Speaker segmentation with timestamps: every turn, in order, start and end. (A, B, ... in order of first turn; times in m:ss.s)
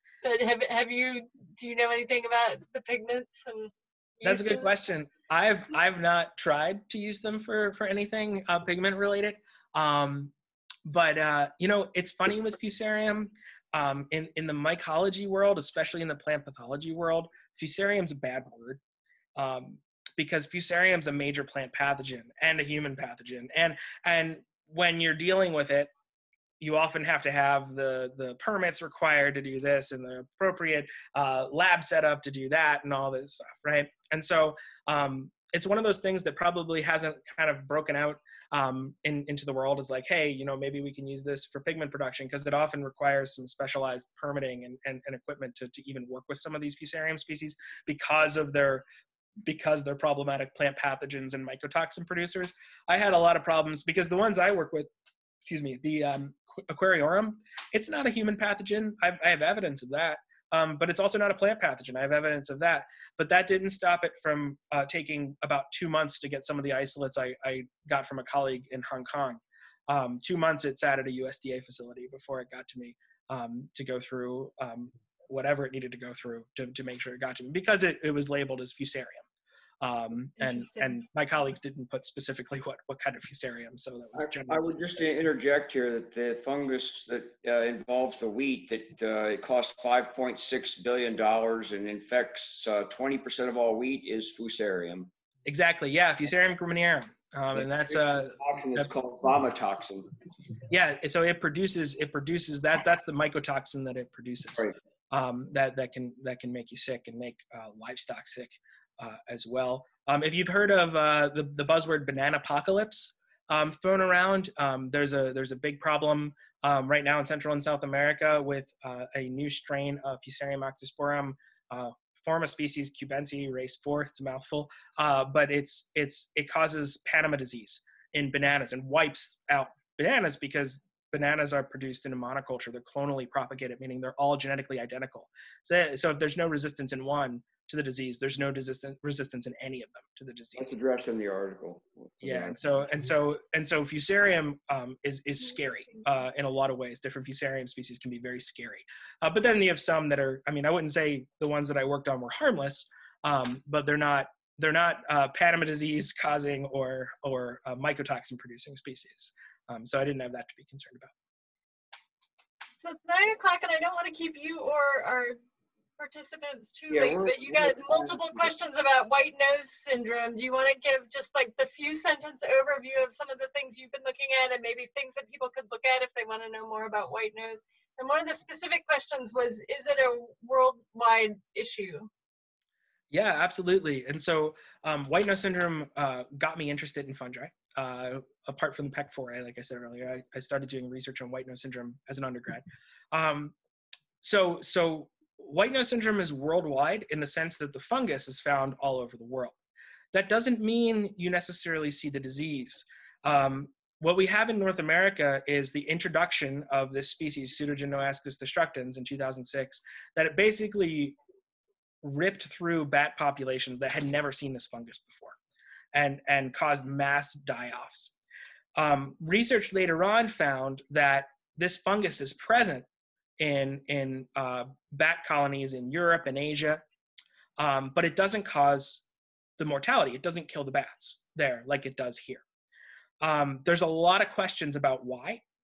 0:00.2-0:04.8 A
0:04.2-0:10.3 B
0:10.8-0:18.8 B
0:19.4-0:25.9 B
0:26.6-0:48.8 B
0:49.4-0:54.9 B
0:55.4-1:19.2 B
1:19.8-1:24.9 B
1:20.4-1:21.0 A
1:24.1-1:35.1 C
1:35.4-1:38.9 B
1:37.6-1:40.1 C
1:40.7-2:20.7 B
2:20.6-2:23.1 C
2:22.2-2:41.1 B
2:42.8-2:45.4 A
2:46.0-3:02.1 A
2:46.9-2:48.5 C
3:03.1-3:13.5 B
3:14.2-3:19.6 B
3:20.1-3:31.2 B
3:32.0-3:35.4 B
3:35.9-3:38.1 B
3:38.8-3:42.8 B
3:43.4-3:46.8 B
3:47.6-3:49.0 B
3:49.6-3:52.4 B
3:53.2-3:55.4 B